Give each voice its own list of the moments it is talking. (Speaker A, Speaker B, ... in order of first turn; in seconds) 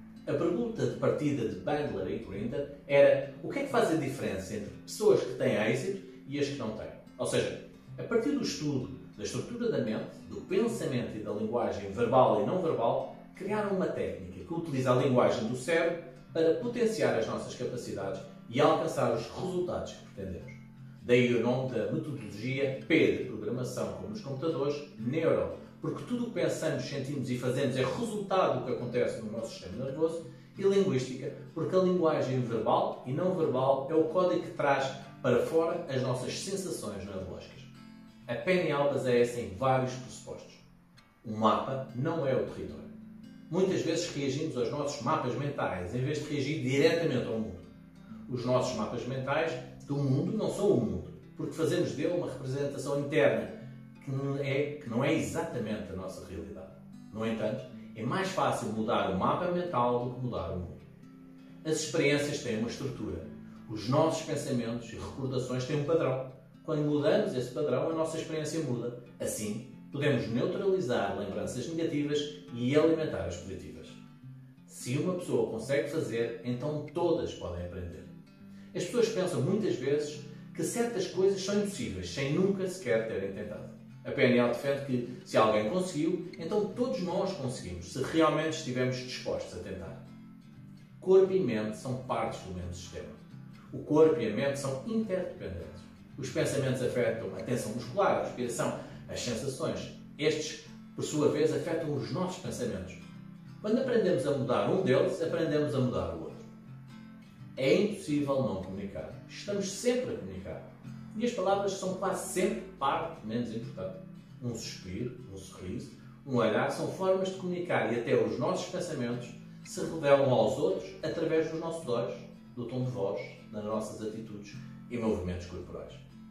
Speaker A: 0.2-37.7, 38.3-40.6, 41.2-42.9, 43.5-47.7, 48.3-60.8, 61.6-74.0, 74.7-78.1, 78.7-90.0, 91.0-93.2, 93.7-103.0, 103.6-106.5, 107.5-126.0